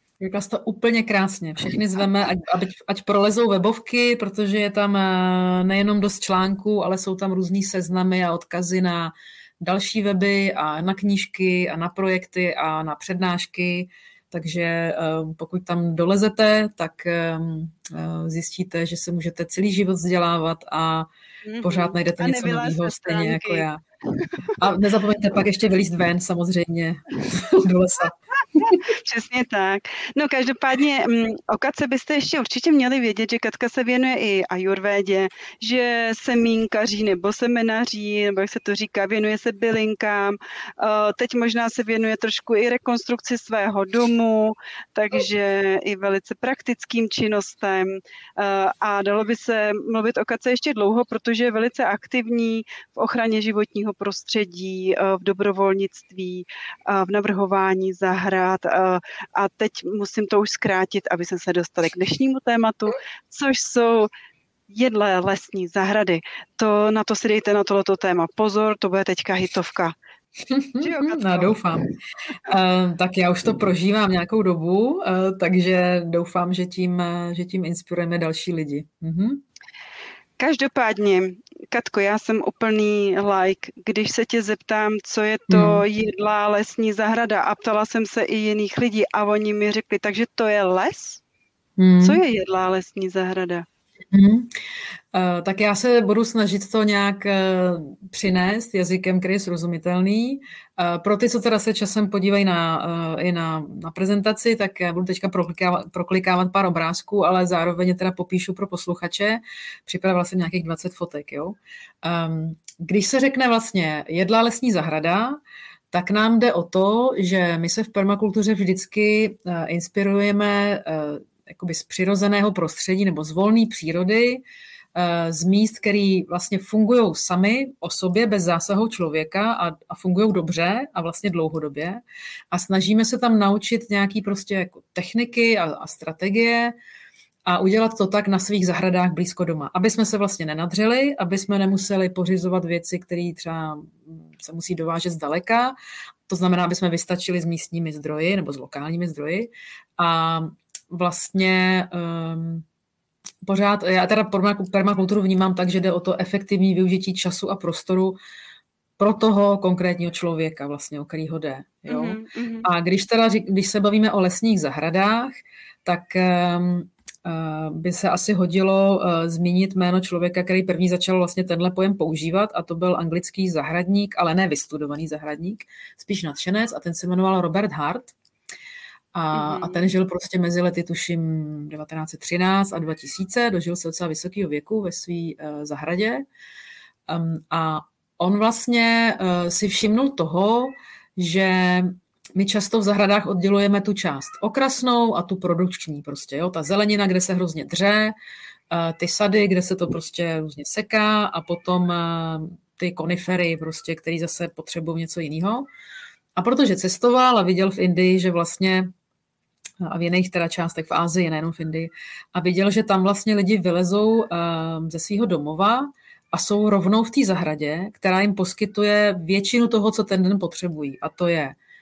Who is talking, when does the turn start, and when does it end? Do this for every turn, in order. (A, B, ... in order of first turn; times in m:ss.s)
0:00.2-0:21.1 A
0:21.4-0:24.5 B
0:21.6-0:23.8 A
0:24.6-0:28.8 A
0:28.6-1:04.1 B
1:04.7-1:09.9 B
1:10.5-1:11.9 A
1:10.8-1:11.6 B
1:12.4-1:19.4 A
1:20.4-1:31.2 B
1:25.5-1:25.8 A
1:31.8-1:32.2 A
1:32.0-1:33.6 B
1:34.1-1:34.5 A
1:35.1-1:55.4 A
1:55.9-2:04.4 A
2:04.9-2:12.0 A
2:12.5-2:16.7 A
2:17.4-2:25.7 A
2:26.3-2:32.6 A
2:33.4-2:38.2 A
2:39.0-2:58.1 A
2:41.9-2:42.7 B
2:59.1-3:06.2 A
2:59.3-2:59.8 B
3:07.1-3:18.1 A
3:18.7-3:25.7 A
3:26.4-3:28.9 A
3:29.8-3:41.6 A